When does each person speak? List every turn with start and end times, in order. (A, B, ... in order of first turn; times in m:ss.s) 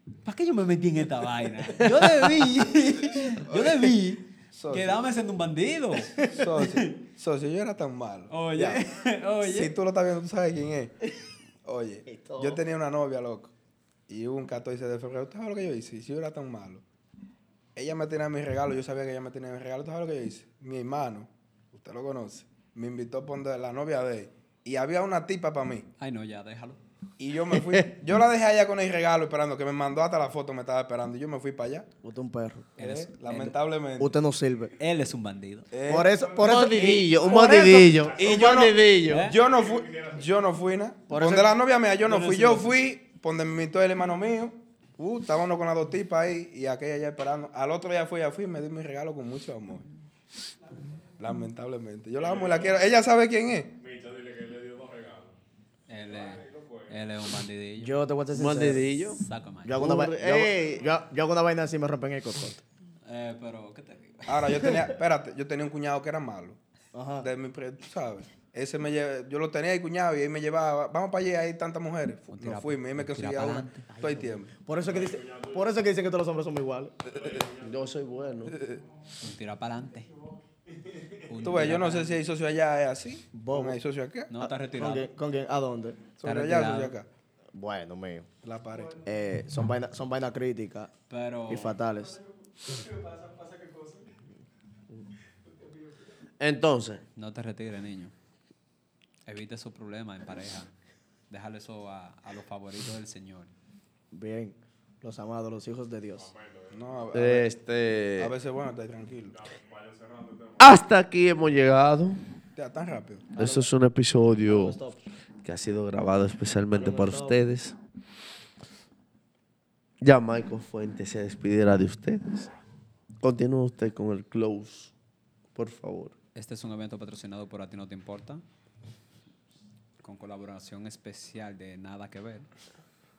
0:00.2-0:06.7 A
0:04.5-0:05.0 B
0:06.2-0:08.8 B
0:08.3-0:09.7 A
0:09.4-0:10.9 B
0:11.6-0:13.5 B
0:12.0-0:12.6 C
0:14.1-0:16.8 B
0:17.8-0:25.9 B
0:26.0-0:26.8 A
0:27.2-0:31.8 B
0:27.5-0:27.9 D
0:32.0-0:32.7 C
0:32.8-0:33.6 A
0:32.8-0:34.1 B
0:34.0-0:34.7 C
0:34.8-0:35.7 A
0:35.7-0:36.2 B
0:35.9-0:38.8 C
0:36.4-0:39.2 D
0:38.2-0:49.9 B
0:39.1-0:39.4 A
0:39.4-0:40.1 E
0:41.1-0:41.6 C
0:42.0-0:42.7 A
0:51.2-0:53.7 B
0:52.2-0:52.8 E
0:53.8-0:55.4 E
0:55.9-0:58.0 A
0:56.0-0:57.0 E
0:57.8-0:58.8 C
0:58.3-0:59.2 D
0:59.1-0:59.7 A
0:59.6-1:02.6 C
0:59.7-1:00.8 D
1:03.0-1:04.8 A
1:04.3-1:06.6 B
1:06.9-1:07.3 C
1:07.2-1:14.5 B
1:12.3-1:13.8 A
1:13.9-1:16.9 C
1:14.8-1:15.7 E
1:17.0-1:17.8 E
1:17.2-1:17.4 B
1:17.6-1:18.6 D
1:18.5-1:18.8 B
1:19.2-1:20.2 A
1:21.3-1:22.2 A
1:21.4-1:24.3 B
1:23.3-1:23.8 C
1:24.3-1:25.1 A
1:24.6-1:26.0 C
1:26.2-1:27.1 B
1:26.2-1:26.9 A
1:27.5-1:28.3 C
1:28.4-1:29.0 B
1:28.9-1:30.9 C
1:31.1-1:31.8 A
1:31.5-1:32.2 C
1:36.4-1:37.0 D
1:37.2-1:38.1 A
1:39.2-1:40.7 A
1:41.3-1:43.5 A
1:44.1-1:46.3 C
1:46.1-1:46.9 E
1:46.7-1:47.5 B
1:47.1-1:48.3 D
1:48.2-1:49.4 B
1:49.3-1:50.8 E
1:50.6-1:52.2 D
1:52.6-1:53.3 B
1:53.4-1:53.7 C
1:53.4-1:54.8 D
1:54.4-1:55.0 C
1:55.4-1:57.8 D
1:56.7-1:57.4 C
2:00.0-2:02.5 D
2:03.2-2:04.9 D
2:05.5-2:06.1 D
2:06.3-2:08.4 A
2:10.0-2:12.5 A